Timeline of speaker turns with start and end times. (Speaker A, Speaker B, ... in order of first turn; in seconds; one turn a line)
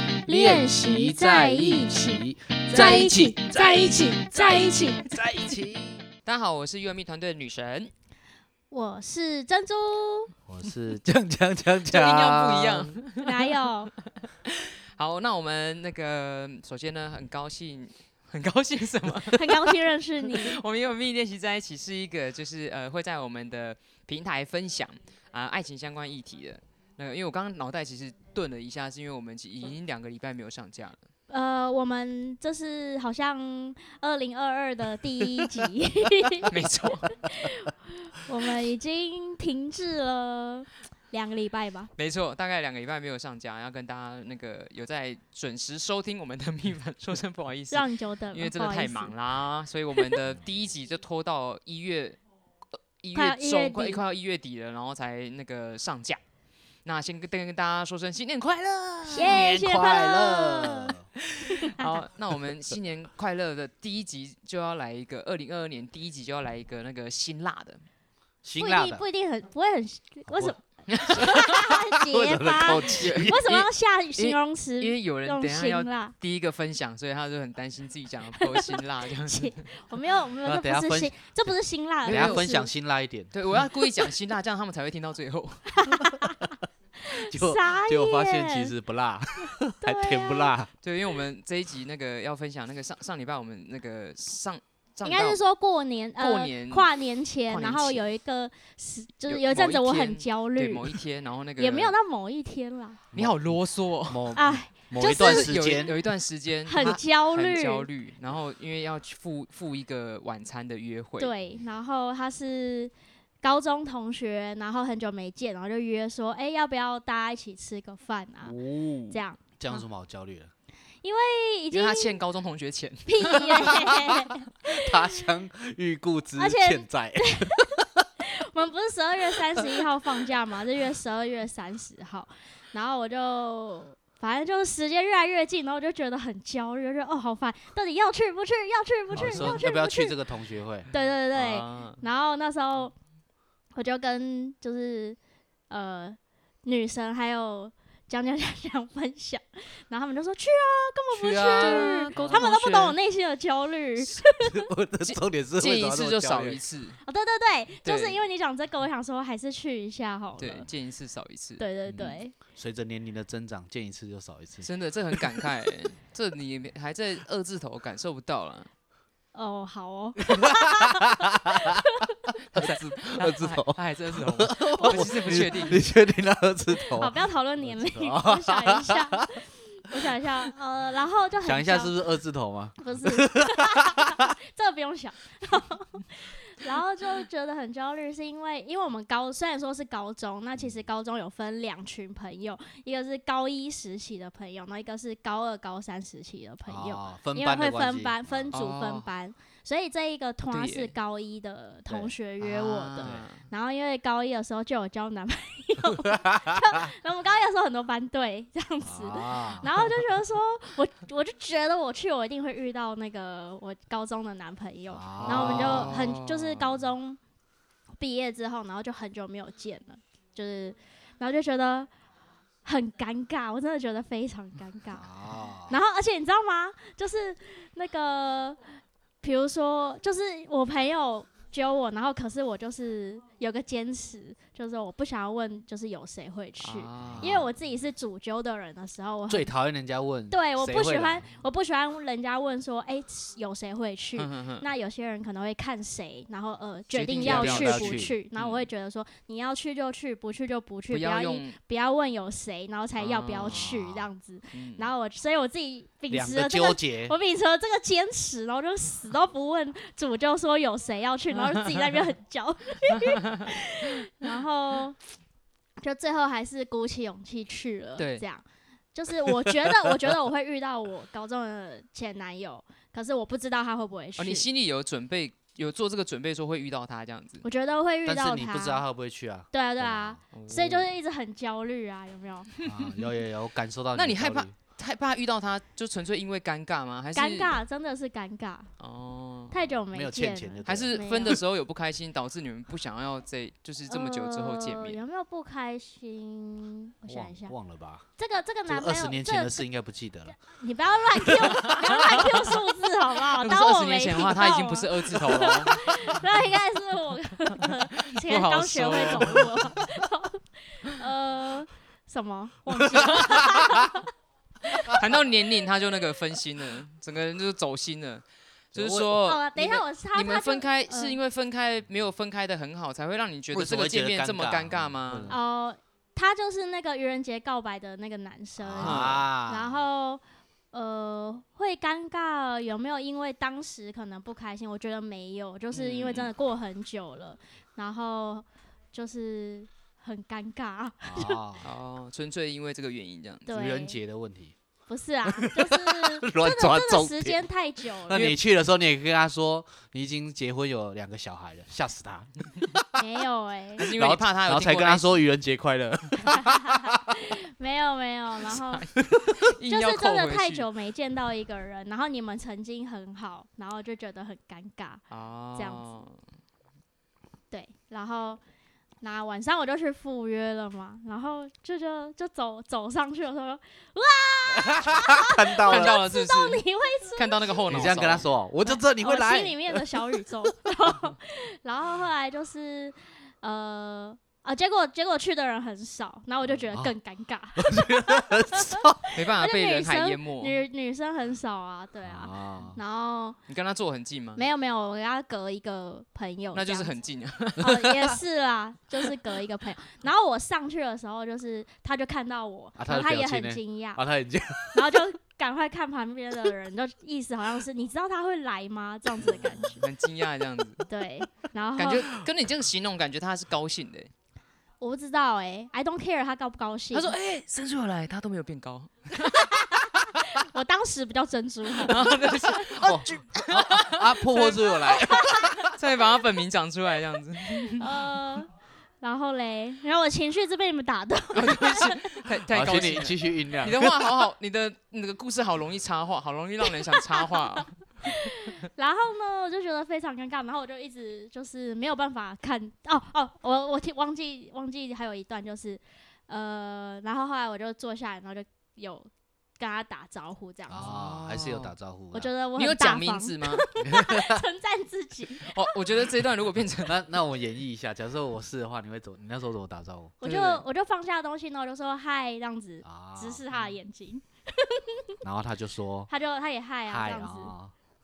Speaker A: 0.2-5.0
Speaker B: 0.3-6.0
Speaker C: 2.7-3.3
Speaker C: 6.2-7.9
Speaker A: 8.7-10.3
Speaker B: 10.5-13.0
Speaker C: 11.9-13.5
Speaker A: 13.2-13.9
Speaker C: 14.2-31.0
Speaker A: 19.3-20.6
Speaker A: 31.3-36.5
Speaker C: 36.5-37.1
Speaker A: 37.1-41.9
Speaker C: 42.0-52.2
Speaker A: 47.7-49.1
Speaker C: 53.0-56.2
Speaker A: 53.1-54.0
Speaker C: 56.8-59.4
Speaker B: 59.1-61.1
Speaker A: 59.1-60.9
Speaker C: 61.4-67.8
Speaker A: 61.5-62.0
Speaker B: 68.4-69.0
Speaker A: 68.6-76.1
Speaker B: 70.3-73.4
Speaker C: 70.9-71.5
Speaker C: 72.9-79.6
Speaker A: 78.4-82.7
Speaker B: 80.4-81.5
Speaker C: 82.0-82.5
Speaker B: 82.0-83.3
Speaker C: 83.3-85.7
Speaker A: 85.7-86.5
Speaker A: 87.0-88.7
Speaker B: 87.2-90.7
Speaker A: 89.8-90.5
Speaker C: 90.8-95.4
Speaker A: 95.0-101.0
Speaker C: 96.2-96.9
Speaker C: 97.5-98.0
Speaker C: 99.3-101.9
Speaker A: 101.6-103.0
Speaker B: 103.1-106.0
Speaker C: 103.1-104.4
Speaker A: 104.3-105.5
Speaker C: 105.0-111.3
Speaker A: 106.7-107.9
Speaker A: 111.2-118.5
Speaker B: 118.5-120.5
Speaker A: 119.1-119.8
Speaker A: 121.0-122.1
Speaker C: 121.7-124.0
Speaker A: 123.1-124.9
Speaker B: 124.7-128.0
Speaker A: 126.4-140.2
Speaker B: 139.1-140.9
Speaker C: 139.2-139.6
Speaker A: 140.9-142.9
Speaker C: 141.3-142.0
Speaker A: 143.7-145.2
Speaker A: 145.7-154.6
Speaker C: 151.1-152.9
Speaker B: 151.3-152.5
Speaker B: 154.2-156.6
Speaker C: 155.6-157.0
Speaker A: 157.0-160.7
Speaker C: 157.8-158.2
Speaker C: 160.4-162.1
Speaker A: 161.6-162.3
Speaker B: 161.9-165.4
Speaker C: 164.6-168.7
Speaker A: 169.3-171.8
Speaker B: 170.3-171.7
Speaker B: 172.5-179.2
Speaker C: 172.5-175.8
Speaker A: 174.7-175.7
Speaker A: 176.7-181.9
Speaker B: 181.4-184.3
Speaker A: 182.8-217.2
Speaker B: 196.7-198.5
Speaker C: 198.5-199.1
Speaker C: 200.5-200.9
Speaker C: 202.4-203.4
Speaker B: 206.1-206.6
Speaker B: 208.8-209.7
Speaker B: 214.9-216.0
Speaker C: 215.2-216.8
Speaker A: 218.0-221.9
Speaker A: 222.6-225.1
Speaker B: 224.9-225.8
Speaker A: 225.7-228.7
Speaker A: 229.2-239.5
Speaker C: 236.6-237.5
Speaker B: 237.0-237.5
Speaker B: 239.3-241.3
Speaker A: 240.3-265.0
Speaker C: 244.2-244.6
Speaker C: 246.9-248.7
Speaker B: 247.2-248.2
Speaker C: 250.9-251.6
Speaker C: 253.0-253.7
Speaker B: 253.4-254.1
Speaker C: 254.5-254.9
Speaker B: 256.1-257.1
Speaker C: 261.3-261.9
Speaker A: 265.8-274.4
Speaker C: 268.0-268.2
Speaker C: 274.2-277.4
Speaker A: 277.4-278.8
Speaker B: 278.0-280.2
Speaker A: 279.5-282.5
Speaker C: 280.3-280.9
Speaker C: 282.6-283.1
Speaker B: 282.6-284.5
Speaker C: 283.9-287.6
Speaker A: 287.1-288.7
Speaker C: 288.8-289.6
Speaker A: 289.5-291.4
Speaker B: 289.9-291.4
Speaker C: 290.6-295.0
Speaker A: 293.9-297.5
Speaker B: 297.1-298.1
Speaker A: 298.2-299.6
Speaker B: 298.7-300.4
Speaker A: 300.4-314.1
Speaker C: 301.6-302.4
Speaker C: 303.4-306.1
Speaker C: 308.1-309.4
Speaker B: 313.0-313.9
Speaker C: 314.9-325.3
Speaker B: 318.7-319.2
Speaker A: 319.2-321.2
Speaker B: 323.5-325.4
Speaker A: 325.3-341.4
Speaker B: 328.6-329.8
Speaker C: 328.8-329.2
Speaker C: 335.7-336.3
Speaker B: 341.0-341.6
Speaker C: 341.6-343.5
Speaker A: 343.4-344.0
Speaker B: 343.5-344.5
Speaker A: 344.9-348.4
Speaker B: 345.2-347.4
Speaker B: 348.0-353.0
Speaker A: 352.9-353.8
Speaker C: 353.8-355.2
Speaker B: 353.8-357.1
Speaker A: 356.3-358.9
Speaker C: 358.5-360.6
Speaker A: 359.6-365.0
Speaker C: 365.1-366.2
Speaker A: 365.6-365.8
Speaker A: 367.5-368.4
Speaker A: 369.0-377.9
Speaker B: 374.5-375.9
Speaker C: 375.6-376.6
Speaker C: 377.1-378.2
Speaker B: 377.7-380.0
Speaker A: 378.6-393.4
Speaker B: 387.6-389.0
Speaker C: 389.1-390.6
Speaker B: 392.1-392.8
Speaker C: 393.5-394.4
Speaker A: 394.4-396.9
Speaker C: 396.5-398.1
Speaker A: 397.6-404.0
Speaker B: 402.8-405.0
Speaker A: 404.7-409.8
Speaker C: 409.6-410.9
Speaker A: 410.9-412.1
Speaker C: 411.8-414.1
Speaker A: 414.8-417.1
Speaker C: 416.9-419.6
Speaker A: 419.3-422.1
Speaker C: 421.8-424.6
Speaker B: 422.7-425.7
Speaker A: 424.9-425.4
Speaker C: 425.6-428.0
Speaker A: 427.8-428.5
Speaker A: 429.0-432.2
Speaker C: 431.3-437.8
Speaker B: 432.5-434.1
Speaker A: 438.0-450.9
Speaker B: 450.7-452.3
Speaker C: 450.8-451.7
Speaker A: 452.1-455.7
Speaker C: 452.6-453.6
Speaker B: 453.8-454.4
Speaker C: 455.4-457.0
Speaker B: 456.8-460.1
Speaker A: 460.2-465.0
Speaker C: 460.2-460.6
Speaker B: 462.8-463.4
Speaker B: 465.2-466.1
Speaker A: 466.1-467.5
Speaker B: 466.9-467.7